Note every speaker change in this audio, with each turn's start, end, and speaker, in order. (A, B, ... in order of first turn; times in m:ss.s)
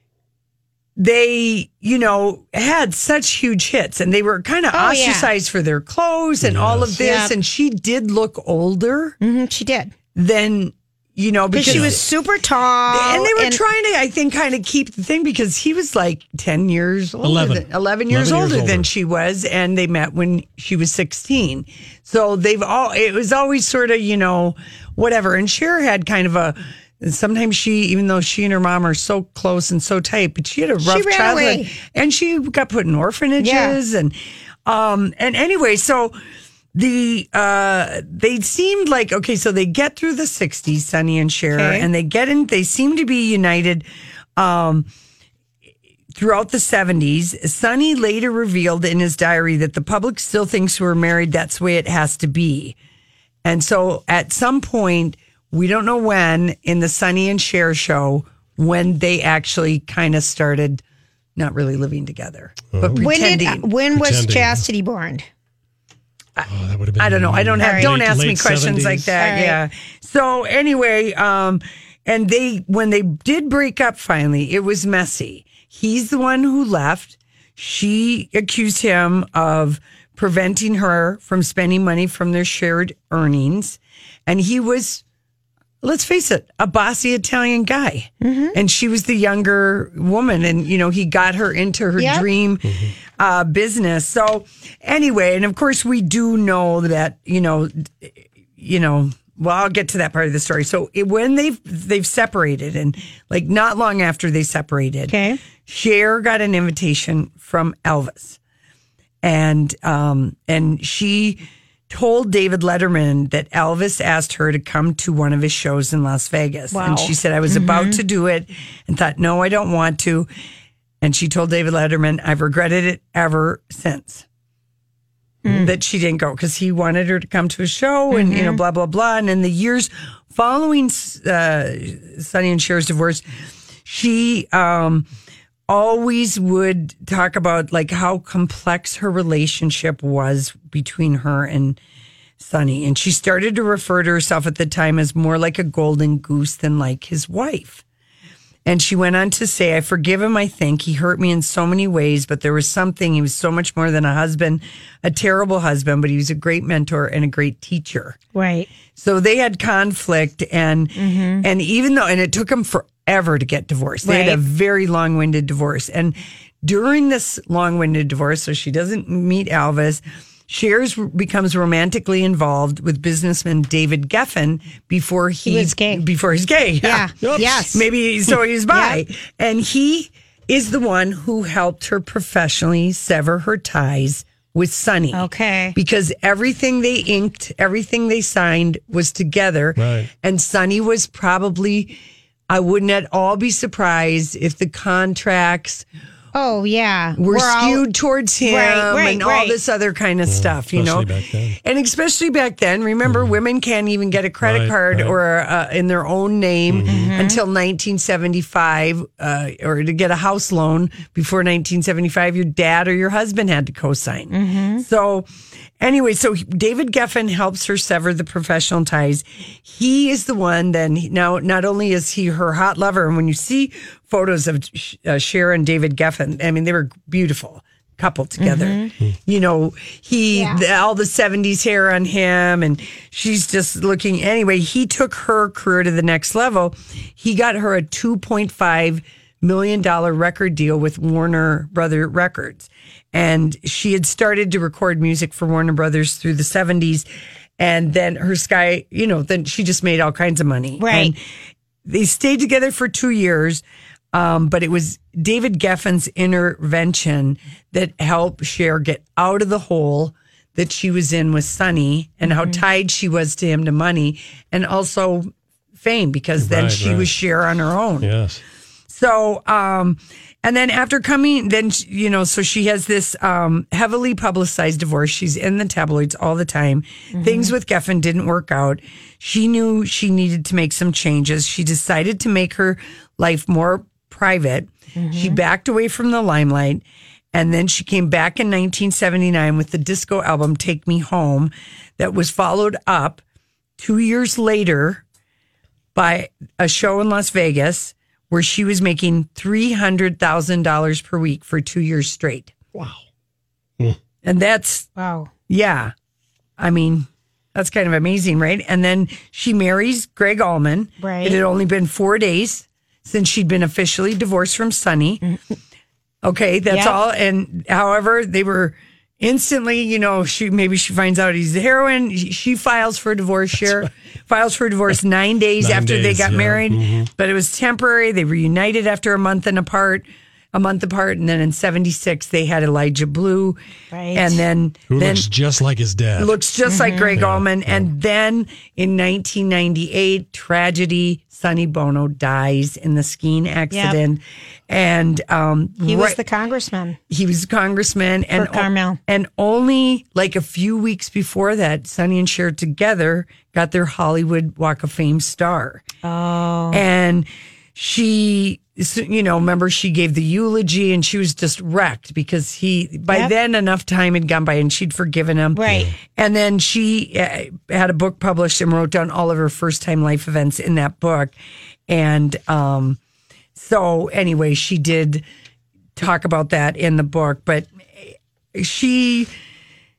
0:01.0-0:09.2 A
0:04.7-0:05.3 B
0:06.4-0:07.0 C
0:07.0-0:07.4 B
0:09.2-0:09.9 B
0:10.2-0:12.0 A
0:11.5-0:13.6 B
0:11.6-0:12.0 C
0:12.9-0:36.2 A
0:17.2-0:18.9 C
0:30.8-0:31.7 B
0:33.4-0:33.8 B
0:36.7-0:43.8 A
0:41.6-0:41.9 B
0:44.4-0:44.9 A
0:46.2-0:52.8 A
0:53.4-1:00.8 A
1:01.4-1:03.7 A
1:02.7-1:03.0 C
1:03.0-1:05.3 B
1:03.9-1:04.7 C
1:06.4-1:25.0 A
1:06.5-1:09.1 C
1:07.6-1:08.0 B
1:09.2-1:09.6 B
1:25.8-1:48.4 A
1:28.2-1:28.6 B
1:32.0-1:32.3 B
1:32.6-1:32.9 C
1:45.1-1:45.4 B
1:49.2-2:00.3 A
1:56.7-1:58.0 B
2:01.0-2:04.2 A
2:05.4-2:05.7 B
2:05.5-2:13.2 A
2:08.1-2:08.6 B
2:13.8-2:15.1 A
2:15.7-2:21.8 A
2:22.4-2:27.8 A
2:28.6-2:38.2 A
2:38.3-2:38.7 B
2:38.9-3:12.0 A
2:41.0-2:41.4 B
2:44.0-2:44.4 B
2:55.4-2:56.1 B
2:56.8-2:57.9 B
2:57.2-2:57.5 C
2:58.7-2:59.0 B
3:05.1-3:05.8 B
3:09.8-3:10.1 C
3:12.5-3:15.8 A
3:16.3-3:17.9 B
3:17.2-3:21.1 A
3:18.4-3:19.6 B
3:20.3-3:21.6 C
3:21.6-3:35.3 A
3:23.0-3:23.4 C
3:24.4-3:25.2 C
3:26.7-3:27.2 C
3:26.9-3:27.4 B
3:34.3-3:34.8 B
3:35.8-4:07.1 A
3:48.4-3:48.9 B
3:50.3-3:50.6 B
4:07.6-4:11.2 A
4:10.8-4:11.1 B
4:11.8-4:13.6 A
4:14.1-4:28.1 A
4:22.2-4:22.6 B
4:26.4-4:27.2 C
4:28.0-4:28.4 C
4:28.9-4:46.8 A
4:37.1-4:37.6 B
4:45.0-4:45.4 B
4:47.3-4:53.2 A
4:53.8-4:55.0 A
4:56.0-5:02.6 A
5:04.2-5:04.9 A
5:05.0-5:05.3 B
5:05.5-5:05.9 A
5:06.6-5:15.2 A
5:11.0-5:11.4 B
5:16.2-5:33.6 A
5:16.7-5:17.0 B
5:25.6-5:27.1 C
5:33.9-5:34.4 B
5:34.1-5:35.3 A
5:34.9-5:36.4 C
5:36.2-5:46.2 A
5:36.6-5:37.3 B
5:37.2-5:37.9 C
5:43.7-5:44.0 B
5:45.8-5:47.0 B
5:47.1-5:55.9 A
5:48.3-5:49.0 B
5:56.0-5:56.8 B
5:56.7-6:11.4 A
6:05.5-6:05.9 B
6:05.7-6:06.0 C
6:11.9-6:13.0 A
6:13.6-6:15.2 A
6:16.0-6:19.3 A